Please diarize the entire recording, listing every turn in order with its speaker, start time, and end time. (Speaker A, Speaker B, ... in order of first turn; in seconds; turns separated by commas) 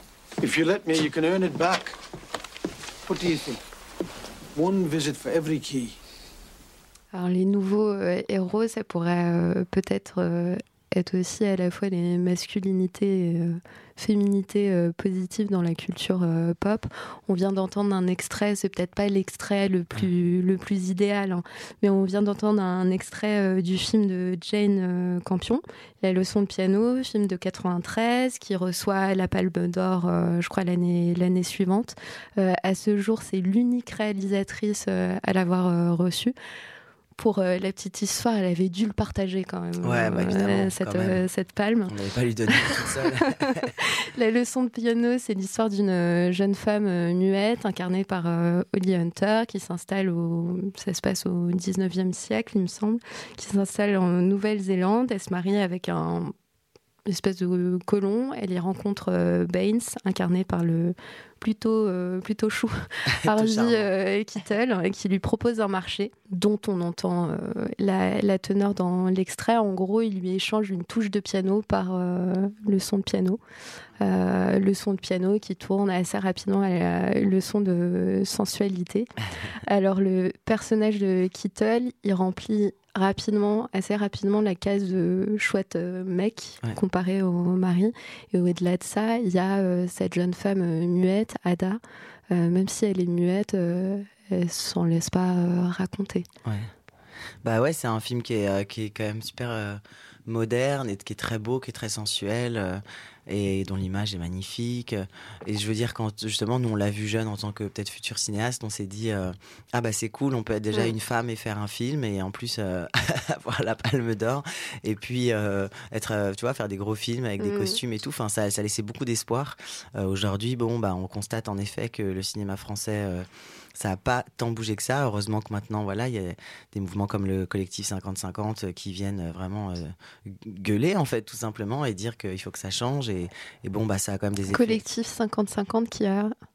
Speaker A: 0.4-2.0, Speaker A: 3.1-3.6, Speaker A: 4.5-6.0, Speaker B: 7.1-36.3, Speaker B: 37.2-41.9, Speaker C: 39.8-41.2, Speaker C: 41.9-43.7, Speaker B: 43.2-56.3, Speaker B: 57.1-73.4, Speaker C: 63.1-63.9, Speaker B: 74.0-79.1, Speaker B: 79.6-96.3, Speaker C: 96.4-96.7, Speaker C: 97.4-134.8, Speaker B: 117.4-117.8, Speaker B: 134.5-136.3